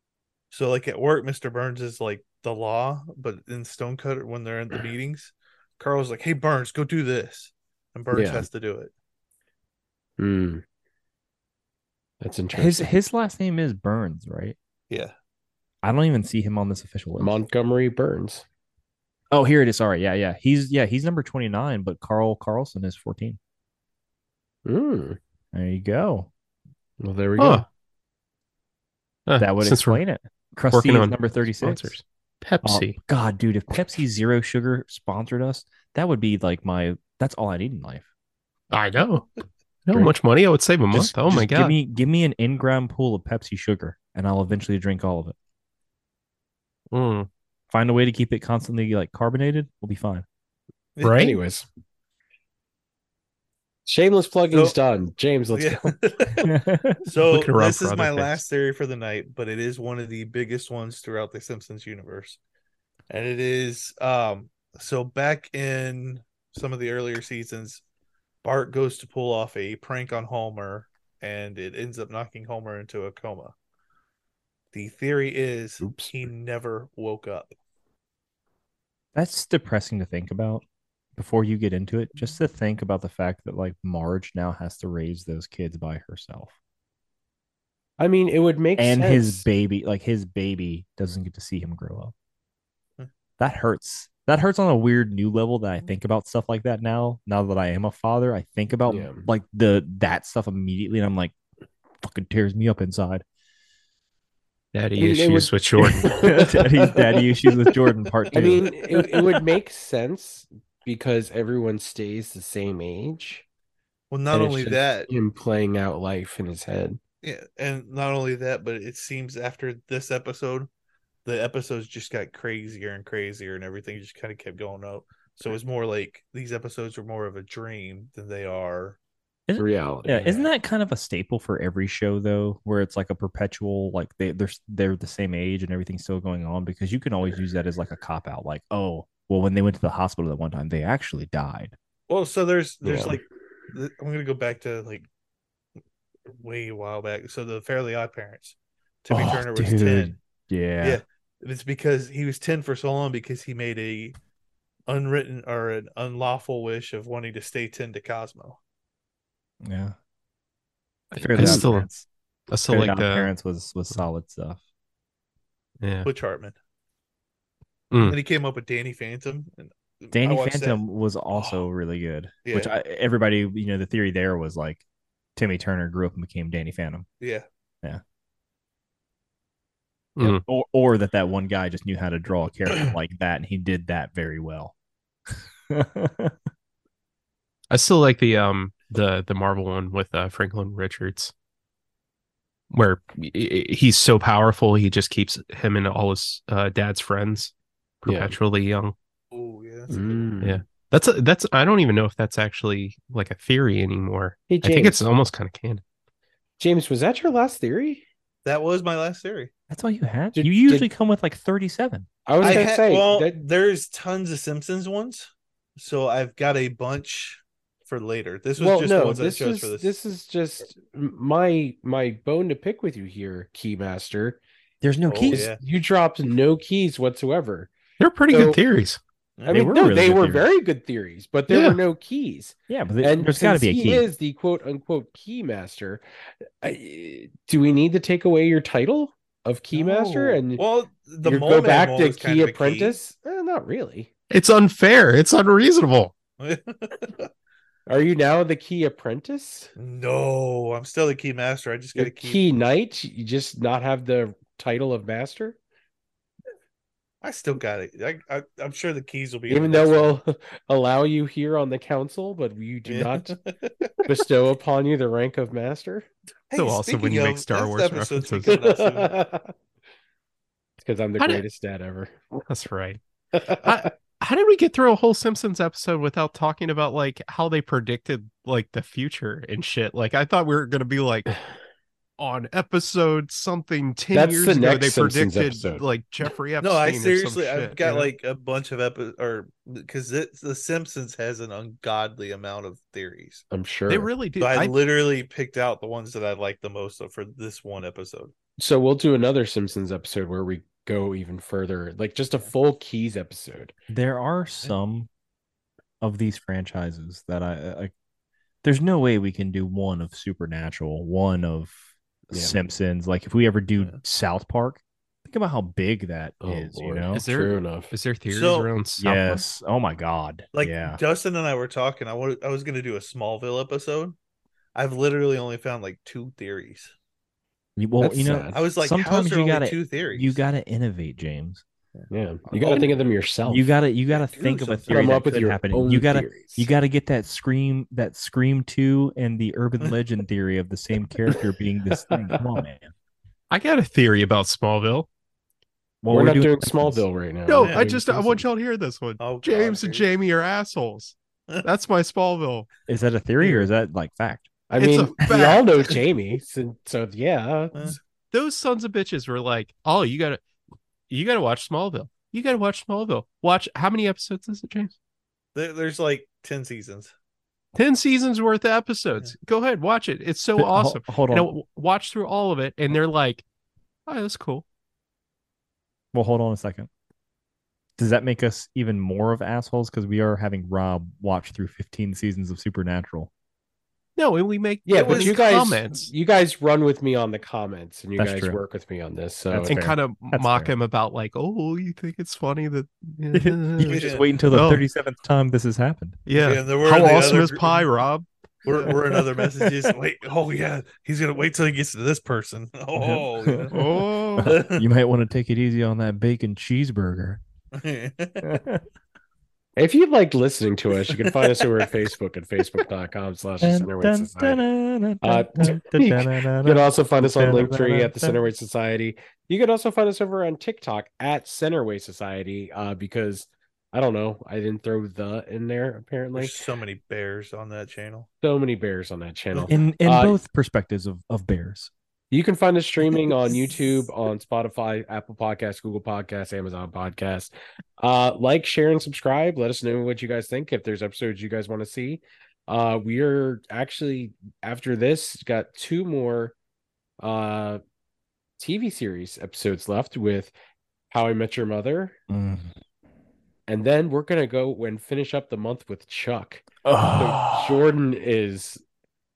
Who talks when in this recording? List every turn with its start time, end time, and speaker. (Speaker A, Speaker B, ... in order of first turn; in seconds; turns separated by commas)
Speaker A: 0.5-8.9, Speaker B: 8.1-8.5, Speaker B: 10.2-10.6, Speaker B: 12.2-12.9, Speaker C: 12.5-14.6, Speaker C: 15.8-17.4, Speaker B: 17.2-18.4, Speaker C: 19.3-23.4, Speaker B: 24.6-25.2, Speaker C: 25.5-26.3, Speaker B: 27.0-27.6, Speaker D: 27.4-27.6, Speaker D: 29.3-30.0, Speaker C: 29.4-31.9, Speaker D: 30.7-33.0, Speaker C: 32.6-38.0, Speaker D: 38.7-39.3, Speaker D: 39.9-41.7, Speaker C: 40.9-45.4, Speaker D: 46.9-47.3, Speaker C: 47.7-50.2, Speaker A: 51.0-51.2, Speaker D: 51.0-51.4, Speaker B: 51.0-51.7, Speaker B: 53.9-56.0, Speaker A: 55.5-62.4, Speaker C: 56.4-57.0, Speaker D: 57.3-58.4, Speaker A: 63.1-67.8, Speaker A: 68.4-73.5, Speaker A: 74.7-77.5, Speaker B: 75.8-76.1, Speaker C: 79.1-80.6, Speaker C: 81.2-86.5, Speaker B: 88.0-89.4, Speaker C: 88.8-92.1, Speaker C: 93.4-101.3, Speaker B: 98.9-99.3, Speaker C: 102.0-103.2, Speaker D: 104.7-106.3, Speaker B: 105.0-106.9, Speaker C: 106.1-108.7, Speaker B: 108.3-113.4, Speaker A: 108.8-109.4, Speaker A: 114.1-115.1, Speaker B: 114.3-117.0, Speaker A: 117.2-120.7, Speaker A: 121.2-129.0, Speaker C: 129.5-141.7, Speaker B: 129.6-130.5, Speaker A: 142.1-145.1, Speaker B: 142.8-143.2, Speaker A: 146.3-150.2, Speaker C: 149.1-151.0, Speaker A: 150.8-154.2, Speaker A: 154.9-158.6, Speaker C: 159.6-159.9, Speaker D: 161.1-161.9, Speaker C: 161.1-162.1, Speaker B: 161.4-161.7, Speaker D: 162.5-163.3, Speaker C: 162.7-164.6, Speaker D: 165.8-166.1, Speaker A: 166.1-166.6, Speaker D: 167.9-168.2, Speaker A: 168.0-170.8, Speaker C: 170.1-174.8, Speaker A: 171.3-171.6, Speaker A: 172.4-172.7, Speaker C: 175.4-177.1, Speaker A: 177.2-177.4, Speaker D: 180.2-180.4, Speaker C: 180.2-184.7, Speaker C: 185.7-186.3, Speaker D: 187.7-191.3, Speaker D: 192.7-197.5, Speaker D: 198.0-198.9, Speaker B: 198.0-198.4, Speaker A: 199.3-200.3, Speaker B: 199.9-200.6, Speaker D: 200.4-205.8, Speaker B: 204.5-205.0, Speaker B: 206.6-208.0, Speaker A: 208.4-209.5, Speaker C: 209.7-212.1, Speaker B: 210.3-210.9, Speaker B: 212.2-213.4, Speaker A: 212.4-219.9, Speaker B: 218.6-224.4, Speaker C: 224.8-225.5, Speaker A: 225.1-225.6, Speaker B: 225.3-227.7, Speaker D: 228.0-229.0, Speaker B: 228.3-228.6, Speaker A: 229.4-229.7, Speaker B: 229.5-236.0, Speaker C: 229.5-230.4, Speaker D: 231.5-231.8, Speaker C: 232.7-234.1, Speaker B: 236.6-240.6, Speaker A: 239.7-243.0, Speaker B: 241.2-244.1, Speaker D: 244.3-246.1, Speaker A: 246.4-247.3, Speaker B: 247.9-249.7, Speaker A: 249.8-252.4, Speaker B: 251.9-255.6, Speaker A: 257.2-260.2, Speaker B: 259.5-263.4, Speaker A: 262.9-264.1, Speaker B: 264.0-266.1, Speaker A: 266.5-269.2, Speaker D: 266.6-268.6, Speaker B: 268.4-269.5, Speaker B: 270.8-272.3, Speaker D: 271.2-271.4, Speaker D: 272.4-273.0, Speaker B: 273.3-273.9, Speaker D: 273.6-281.3, Speaker D: 282.2-288.1, Speaker B: 284.1-285.8, Speaker A: 286.6-293.4, Speaker B: 293.5-294.1, Speaker D: 293.9-294.8, Speaker A: 294.4-298.3, Speaker B: 298.6-303.7, Speaker C: 303.9-305.1, Speaker C: 306.0-307.9, Speaker C: 308.6-311.8, Speaker B: 312.3-312.6, Speaker C: 312.3-317.2, Speaker B: 316.4-317.9, Speaker D: 317.1-319.4, Speaker A: 318.3-318.7, Speaker C: 319.0-321.0, Speaker A: 320.5-324.1, Speaker A: 324.7-326.9, Speaker C: 327.8-331.6, Speaker B: 328.0-328.6, Speaker A: 328.5-330.4, Speaker A: 331.9-332.9, Speaker B: 332.1-333.7, Speaker C: 333.4-342.9, Speaker A: 334.1-335.2, Speaker B: 334.9-336.7, Speaker B: 341.3-342.4, Speaker D: 343.5-345.1, Speaker C: 346.0-347.0, Speaker B: 346.1-348.4, Speaker D: 347.5-352.7, Speaker A: 347.6-347.9, Speaker A: 349.2-350.1, Speaker C: 352.9-354.5, Speaker B: 354.7-357.9, Speaker D: 354.8-356.0, Speaker D: 358.3-360.4, Speaker D: 361.1-364.9, Speaker A: 365.5-367.1, Speaker D: 367.7-373.4, Speaker C: 370.6-371.5, Speaker D: 374.1-374.6, Speaker C: 376.1-376.9, Speaker C: 378.0-383.3, Speaker D: 384.2-386.1, Speaker B: 384.9-389.8, Speaker A: 384.9-385.5, Speaker C: 388.2-388.6, Speaker C: 389.5-390.7, Speaker D: 389.6-394.8, Speaker C: 393.3-396.2, Speaker A: 393.9-394.2, Speaker D: 396.3-398.9, Speaker A: 396.4-397.9, Speaker A: 398.6-403.8, Speaker C: 399.1-399.9, Speaker C: 403.0-407.4, Speaker D: 403.7-404.5, Speaker A: 404.4-404.9, Speaker A: 407.8-408.6, Speaker C: 408.4-408.8, Speaker B: 409.8-414.6, Speaker A: 411.3-411.7, Speaker C: 413.6-418.4, Speaker B: 415.2-426.6, Speaker A: 426.4-428.3, Speaker B: 428.4-430.4, Speaker C: 429.7-431.9, Speaker B: 432.3-446.5, Speaker B: 447.2-447.8, Speaker B: 448.6-450.5, Speaker B: 451.1-452.2, Speaker C: 452.3-452.7, Speaker B: 453.7-458.8, Speaker C: 456.9-457.8